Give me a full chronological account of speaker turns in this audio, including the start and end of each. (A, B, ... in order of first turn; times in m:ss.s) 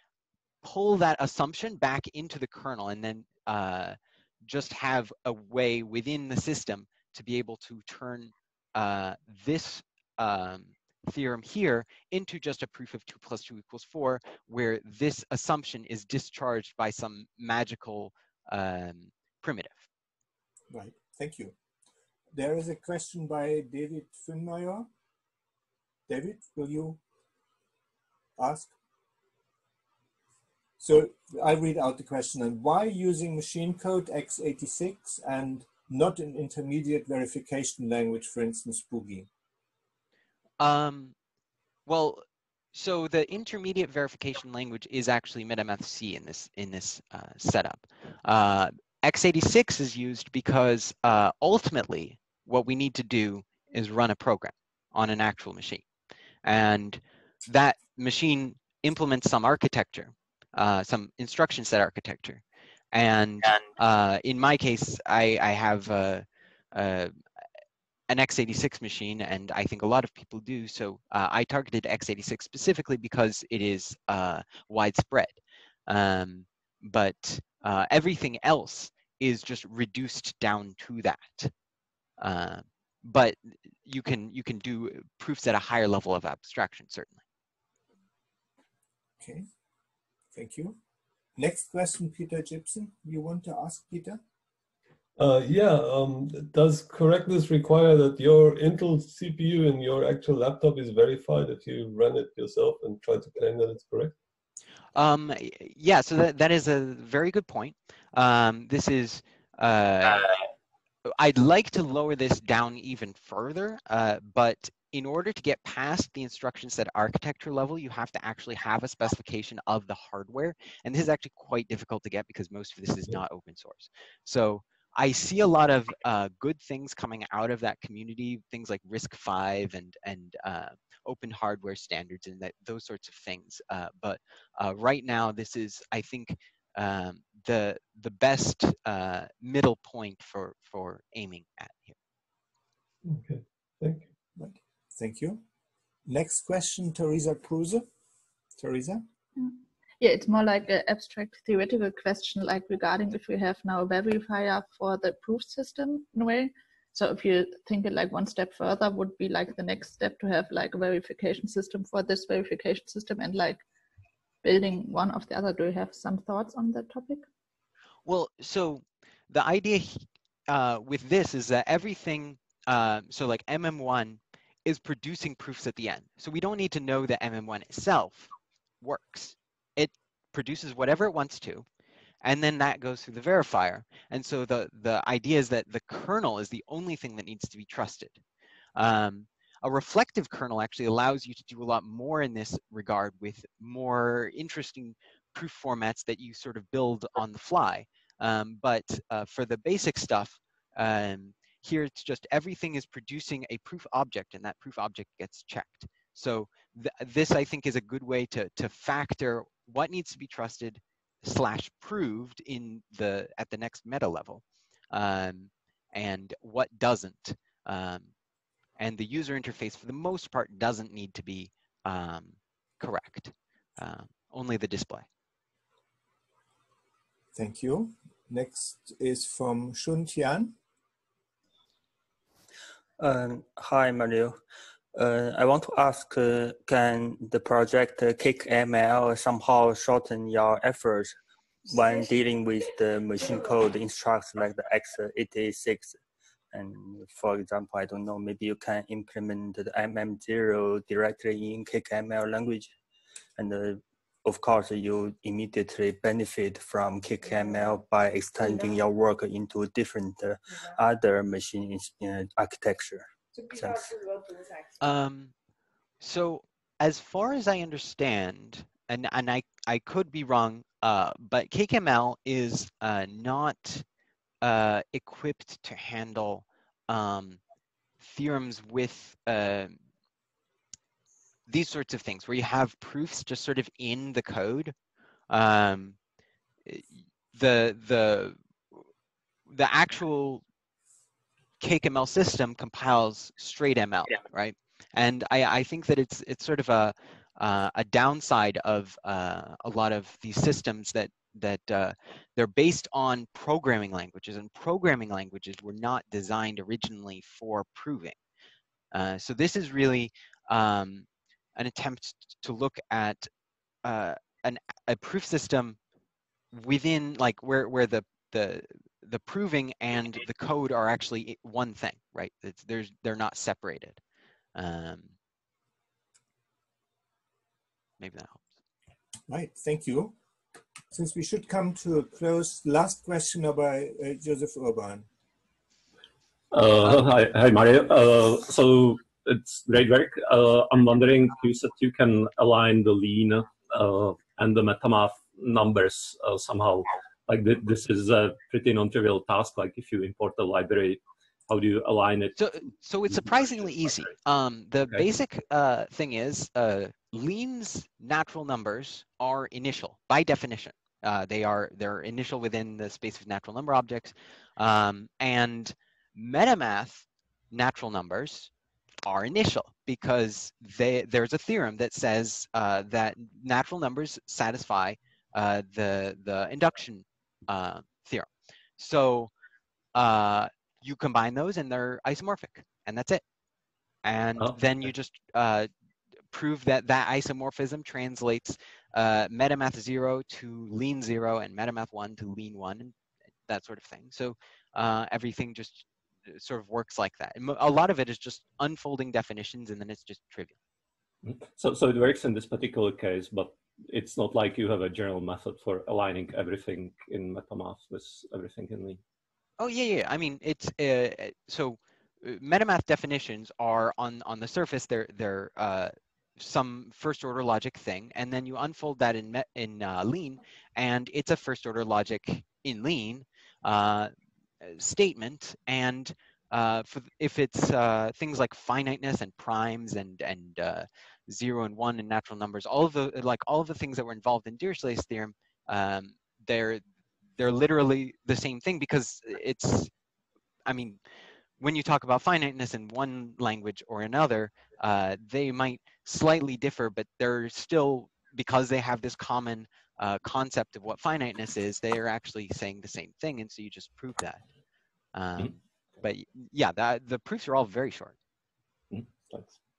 0:00.6-0:19.9 A
0:20.7-0:21.5 B
0:22.3-0:24.9 B
0:26.1-0:27.0 B
0:28.4-0:28.7 B
0:30.8-0:39.3 B
0:40.6-0:41.1 A
0:41.9-0:55.8 A
0:56.4-1:02.4 A
1:02.9-1:07.1 A
1:08.1-1:21.5 A
1:22.2-1:27.2 A
1:29.2-1:29.4 B
1:30.3-1:30.8 B
1:31.4-1:34.2 B
1:35.2-1:44.1 C
1:44.9-1:50.3 A
1:51.1-2:22.0 A
2:23.0-2:24.1 C
2:24.4-2:25.4 B
2:26.1-2:27.8 B
2:28.6-2:29.0 B
2:29.4-2:43.6 D
2:44.4-2:47.2 D
2:48.0-2:58.3 A
2:58.8-3:01.6 A
3:02.2-3:08.2 A
3:08.8-3:38.1 A
3:38.8-3:45.1 A
3:47.3-3:50.6 B
3:53.0-3:54.4 E
3:54.9-4:01.1 E
4:01.6-4:06.0 E
4:06.5-4:12.7 E
4:13.4-4:24.0 E
4:24.8-4:25.3 A
4:26.0-4:33.8 A
4:34.4-4:37.4 A
4:38.0-4:39.7 A
4:41.5-4:44.7 A
4:45.3-4:46.0 A
4:46.6-4:48.8 A
4:49.5-4:50.4 A
4:51.6-5:08.2 A
5:08.9-5:13.3 A
5:13.8-5:15.8 A
5:16.5-5:24.0 A
5:24.5-5:25.1 A
5:28.0-5:28.5 A
5:29.3-5:30.2 B
5:30.9-5:35.1 B
5:36.5-5:52.3 F
5:52.4-6:08.5 A
6:09.0-6:19.3 A
6:19.9-6:23.2 A
6:24.0-6:25.7 A
6:26.3-6:32.9 A
6:33.5-6:40.6 A
6:41.2-6:49.0 F
6:49.6-7:04.1 A
7:04.6-7:16.8 A
7:17.4-7:19.9 A
7:20.6-7:21.0 A
7:21.6-7:34.4 A
7:35.1-7:38.2 A
7:38.9-7:39.5 F